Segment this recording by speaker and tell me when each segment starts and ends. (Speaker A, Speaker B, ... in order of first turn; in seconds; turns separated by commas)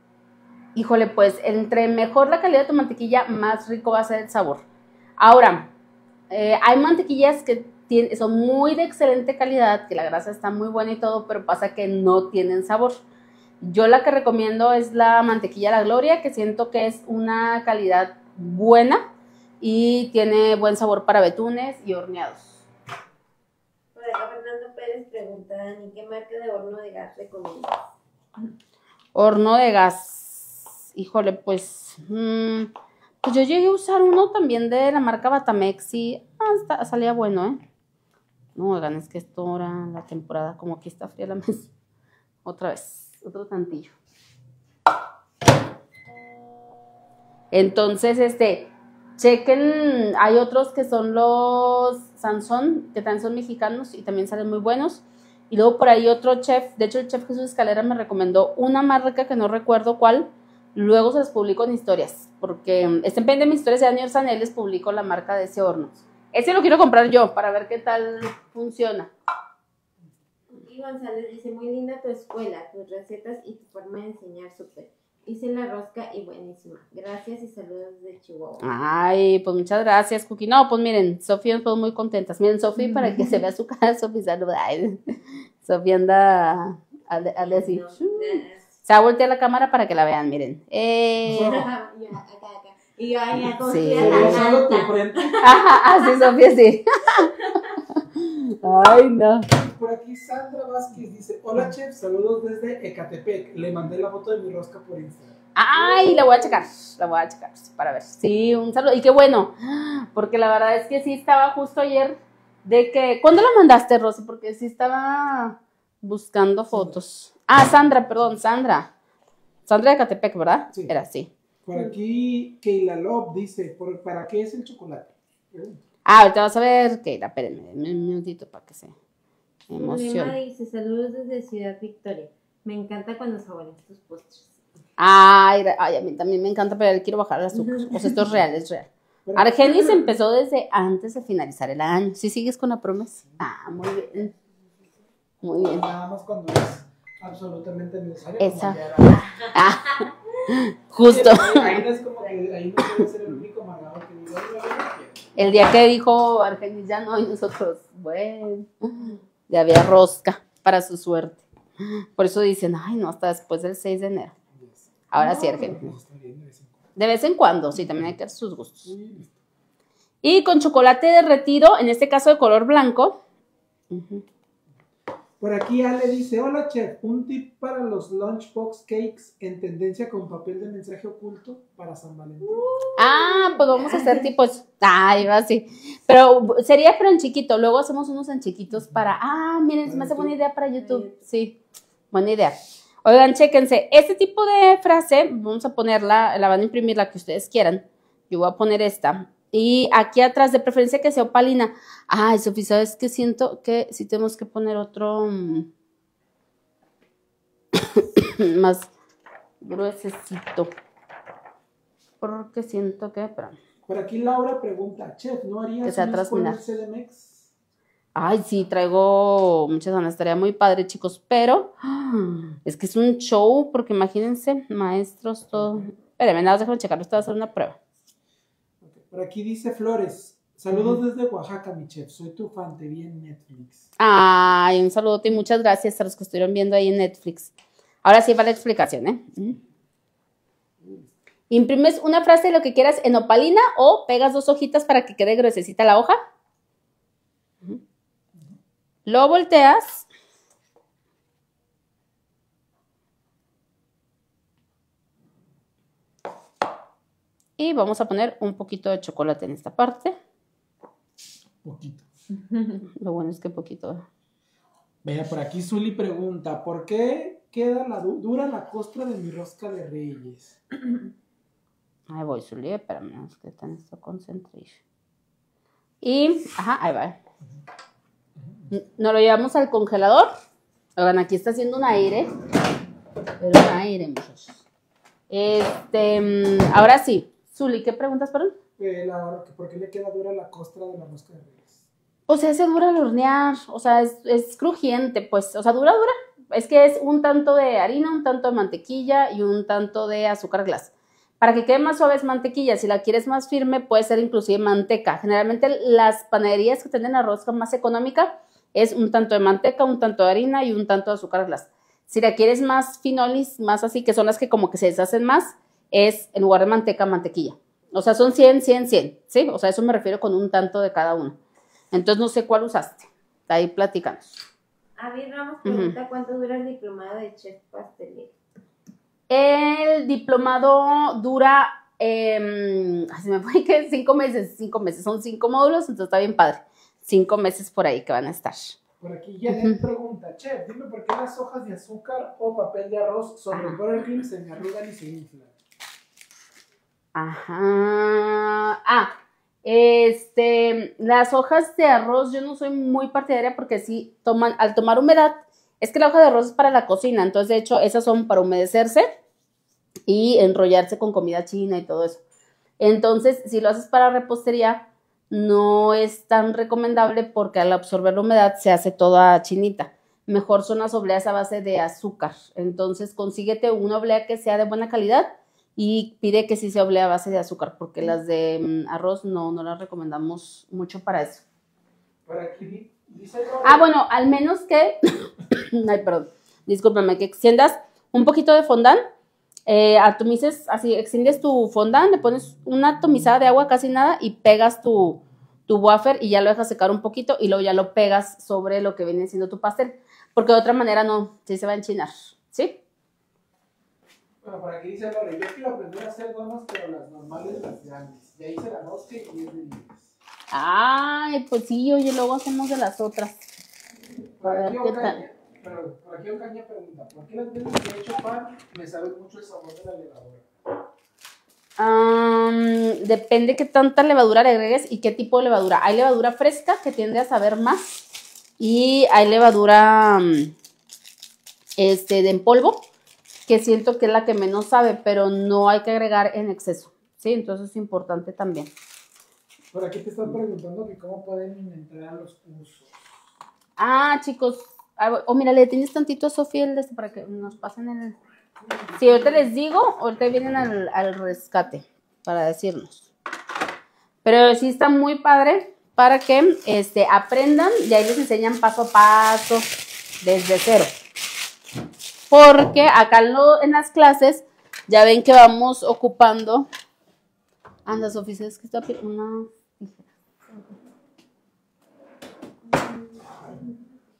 Speaker A: 0.7-4.6, Speaker A: 5.2-5.7, Speaker A: 6.3-13.0, Speaker A: 13.6-19.0, Speaker A: 19.6-22.6, Speaker B: 23.9-27.8, Speaker A: 29.1-32.7, Speaker A: 33.2-37.6, Speaker A: 38.5-41.7, Speaker A: 42.4-43.9, Speaker A: 47.5-69.1, Speaker B: 70.5-78.7, Speaker A: 78.6-85.0, Speaker B: 82.8-83.4, Speaker A: 85.6-91.6, Speaker B: 87.2-88.7, Speaker C: 91.2-91.6, Speaker B: 91.3-96.3, Speaker A: 93.6-94.4, Speaker C: 94.0-95.3, Speaker A: 95.4-99.5, Speaker B: 97.4-97.7, Speaker C: 99.5-105.4, Speaker A: 105.5-118.9, Speaker B: 105.8-106.6, Speaker C: 116.7-117.0, Speaker A: 119.7-121.3, Speaker C: 121.6-125.8, Speaker A: 126.0-128.9, Speaker A: 129.7-130.3, Speaker B: 129.8-134.6, Speaker A: 135.0-144.3, Speaker B: 137.5-138.3, Speaker C: 139.2-140.1, Speaker A: 145.4-145.9, Speaker C: 145.8-149.3, Speaker A: 148.4-151.8, Speaker C: 150.9-155.2, Speaker A: 155.3-164.3, Speaker C: 164.5-166.8, Speaker A: 165.1-165.9, Speaker A: 166.9-168.9, Speaker C: 167.7-168.2, Speaker C: 168.8-169.4, Speaker A: 170.2-173.2, Speaker A: 173.9-174.2, Speaker C: 175.4-182.7, Speaker B: 182.5-184.2, Speaker A: 183.0-191.6, Speaker C: 189.8-190.3, Speaker B: 190.8-191.2, Speaker A: 192.1-205.7, Speaker A: 207.8-208.9, Speaker A: 209.6-210.7, Speaker A: 212.2-213.6, Speaker C: 213.8-217.5, Speaker A: 215.8-216.6, Speaker A: 218.1-227.8, Speaker C: 225.5-225.8, Speaker C: 228.8-233.9, Speaker A: 234.0-237.5, Speaker A: 238.0-239.6, Speaker C: 240.8-241.1, Speaker A: 241.5-246.2, Speaker A: 249.1-250.1, Speaker A: 257.6-260.1, Speaker C: 261.6-262.1, Speaker A: 262.9-264.0, Speaker C: 265.0-270.6, Speaker A: 272.1-274.8, Speaker A: 276.0-277.2, Speaker C: 278.4-278.7, Speaker A: 278.7-280.3, Speaker A: 281.0-282.3, Speaker A: 283.4-284.6, Speaker A: 285.3-288.5, Speaker C: 288.8-291.8, Speaker A: 292.3-321.4, Speaker A: 321.9-324.4, Speaker B: 325.0-328.3, Speaker A: 325.6-325.9, Speaker A: 329.3-338.8, Speaker C: 339.0-345.5, Speaker A: 339.5-339.8, Speaker A: 343.5-343.8, Speaker A: 347.1-359.1, Speaker A: 360.1-362.2, Speaker A: 362.8-381.4, Speaker C: 382.2-383.9, Speaker A: 383.6-389.0, Speaker A: 389.7-402.8, Speaker C: 404.4-410.1, Speaker A: 410.5-413.4, Speaker C: 414.4-420.4, Speaker A: 414.4-415.2, Speaker A: 421.8-428.1, Speaker A: 428.6-430.5, Speaker A: 431.8-432.8, Speaker A: 433.5-438.7, Speaker C: 439.7-442.9, Speaker A: 443.8-448.2, Speaker A: 448.9-453.1, Speaker A: 454.2-459.7, Speaker A: 460.2-460.9, Speaker A: 462.3-466.7, Speaker A: 467.9-470.7, Speaker B: 472.7-473.7